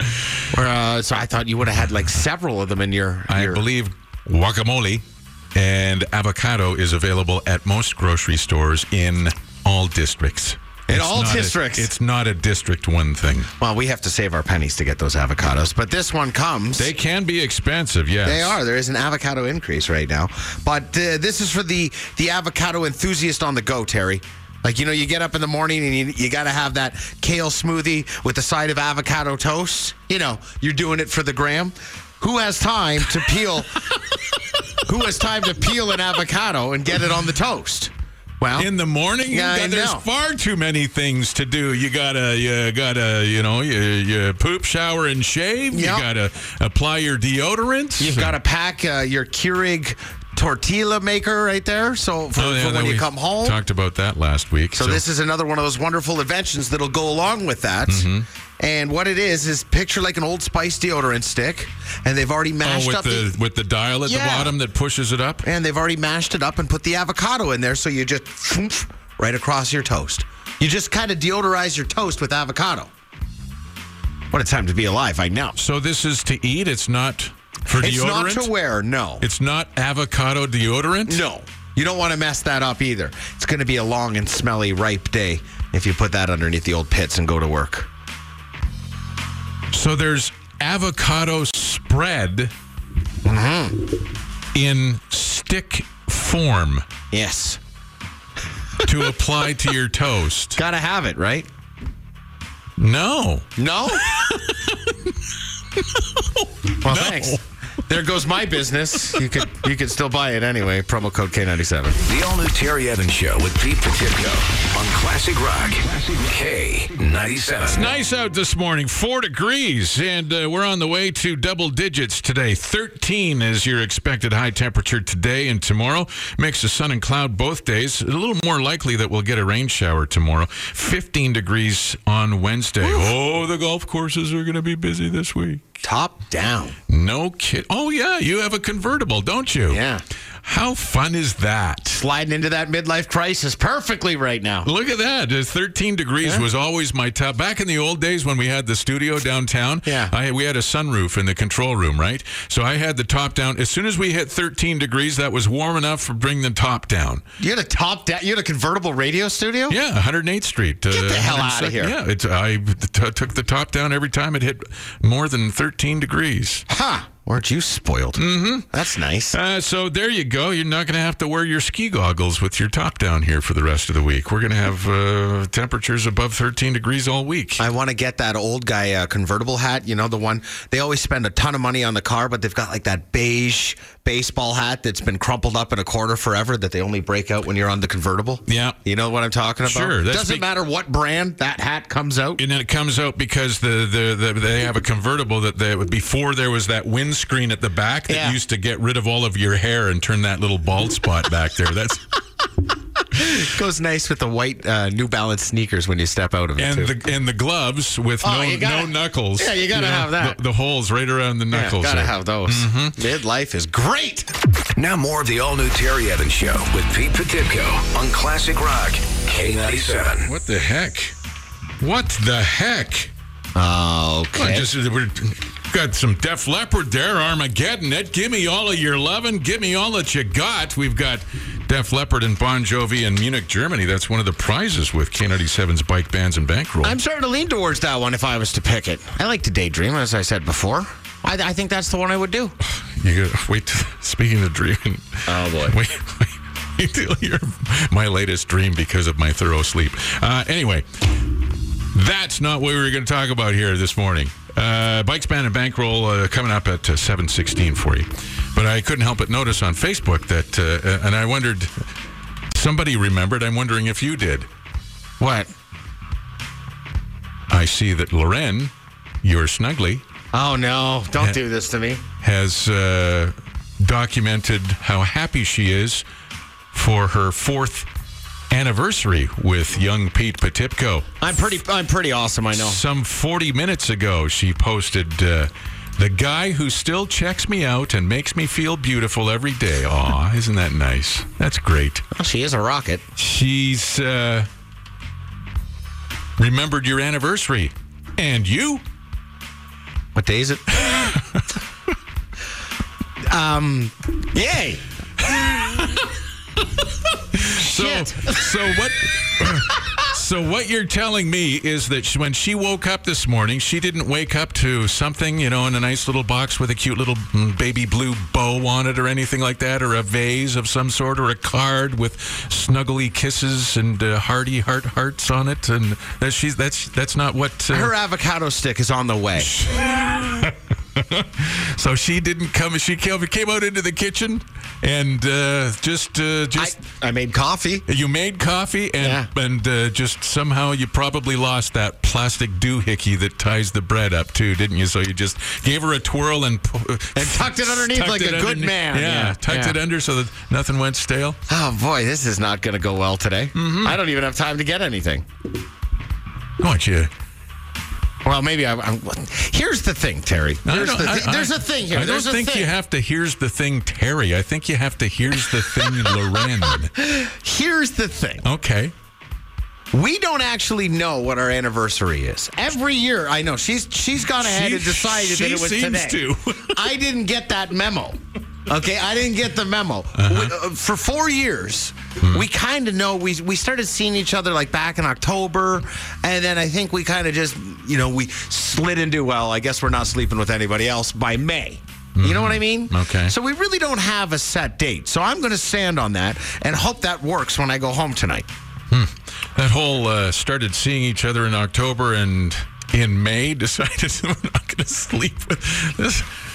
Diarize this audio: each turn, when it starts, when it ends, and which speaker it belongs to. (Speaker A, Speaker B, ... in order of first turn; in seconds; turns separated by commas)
Speaker A: 0.5-3.6, Speaker B: 3.3-13.5, Speaker A: 10.9-11.9, Speaker A: 13.6-16.9, Speaker B: 16.8-18.6, Speaker A: 18.2-33.8, Speaker A: 34.8-38.7, Speaker B: 38.6-48.4, Speaker A: 39.3-40.0, Speaker A: 45.7-46.1, Speaker A: 48.0-53.6, Speaker B: 52.4-55.0, Speaker A: 54.7-58.1, Speaker B: 57.9-58.2, Speaker A: 58.6-63.3, Speaker B: 62.6-65.4, Speaker A: 64.0-64.5, Speaker A: 65.4-72.9, Speaker A: 74.3-75.6, Speaker B: 75.6-78.5, Speaker A: 77.7-79.2, Speaker B: 79.2-81.2, Speaker A: 81.1-87.9, Speaker B: 89.7-92.5, Speaker A: 93.2-93.8, Speaker B: 94.5-96.8, Speaker A: 97.1-97.6, Speaker B: 98.8-100.6, Speaker A: 100.5-101.5, Speaker B: 102.8-103.5, Speaker A: 103.6-104.1, Speaker B: 104.1-104.8, Speaker B: 105.8-107.4, Speaker A: 106.8-112.0, Speaker C: 112.0-117.9, Speaker B: 117.7-135.7, Speaker A: 132.8-133.1, Speaker A: 135.8-136.8, Speaker B: 136.9-139.8, Speaker A: 139.7-140.0, Speaker B: 140.4-142.0, Speaker A: 142.0-144.7, Speaker B: 144.6-157.2, Speaker A: 149.8-150.1, Speaker A: 157.4-159.8, Speaker B: 159.7-166.6, Speaker A: 160.9-161.9, Speaker A: 166.7-169.4, Speaker B: 168.2-168.7, Speaker B: 169.3-177.6, Speaker A: 177.6-192.4, Speaker B: 188.5-188.8, Speaker B: 189.6-190.4, Speaker B: 192.4-202.1, Speaker A: 198.1-198.4, Speaker A: 203.1-207.0, Speaker B: 206.6-213.0, Speaker A: 208.2-210.4, Speaker A: 211.5-214.3, Speaker C: 214.8-220.3, Speaker B: 220.2-221.1, Speaker B: 221.8-223.1, Speaker A: 223.5-224.7, Speaker B: 224.3-237.0, Speaker A: 236.8-242.5, Speaker B: 242.6-251.0, Speaker A: 245.2-245.8, Speaker B: 251.9-261.7, Speaker B: 262.5-264.5, Speaker A: 265.2-265.5, Speaker B: 267.5-270.0, Speaker A: 270.3-272.0, Speaker B: 272.2-276.0, Speaker B: 276.7-277.9, Speaker B: 278.5-281.1, Speaker A: 281.2-282.8, Speaker B: 282.5-292.0, Speaker A: 292.1-293.0, Speaker B: 293.2-294.5, Speaker B: 296.4-298.8, Speaker A: 300.1-301.2, Speaker B: 301.0-301.4, Speaker A: 303.2-304.8, Speaker B: 305.3-306.0, Speaker B: 307.3-327.9, Speaker A: 307.5-308.6, Speaker A: 327.7-329.5, Speaker B: 329.4-336.8, Speaker A: 336.5-337.8, Speaker B: 337.9-351.4, Speaker A: 339.0-339.3, Speaker A: 347.1-349.8, Speaker A: 351.5-355.2, Speaker B: 353.5-354.0, Speaker B: 356.6-357.1, Speaker A: 358.2-362.7, Speaker B: 360.6-366.9, Speaker A: 365.8-366.4, Speaker A: 366.9-368.5, Speaker B: 368.4-368.9, Speaker A: 369.9-398.5, Speaker B: 374.4-376.8, Speaker B: 380.1-380.5, Speaker B: 392.1-393.3, Speaker B: 398.9-406.3